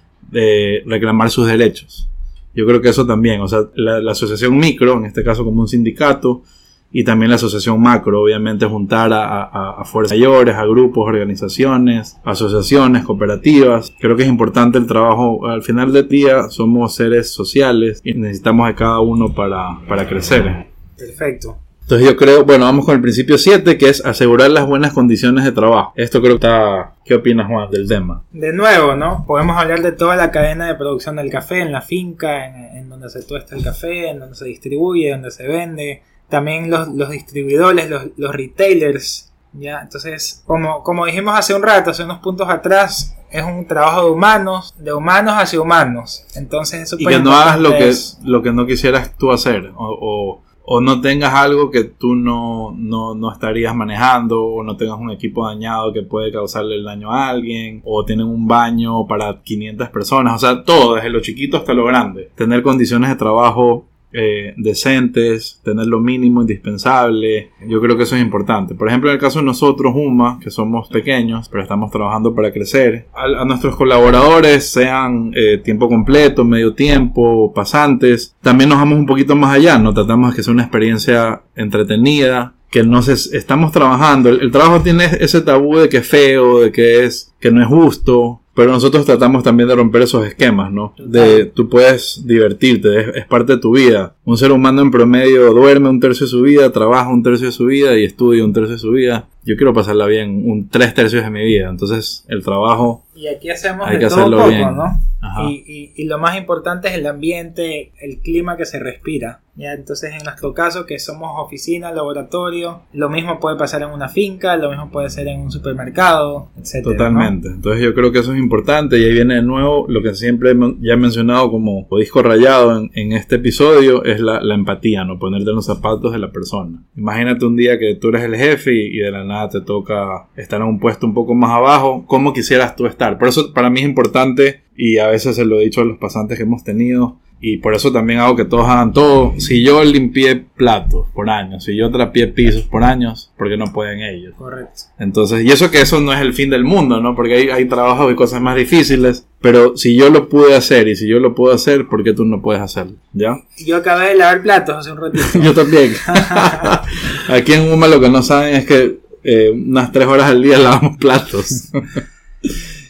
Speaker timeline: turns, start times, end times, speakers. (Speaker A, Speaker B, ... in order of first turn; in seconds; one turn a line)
Speaker A: 0.3-20.6
Speaker B: 21.0-21.6
Speaker A: 21.9-28.2
Speaker B: 28.3-48.0
Speaker A: 47.0-103.0
Speaker B: 91.0-91.5
Speaker B: 103.2-117.3
Speaker A: 103.8-105.5
Speaker A: 116.8-144.3
Speaker B: 144.4-144.9
Speaker A: 145.0-153.4
Speaker B: 153.6-156.7
Speaker A: 155.2-162.5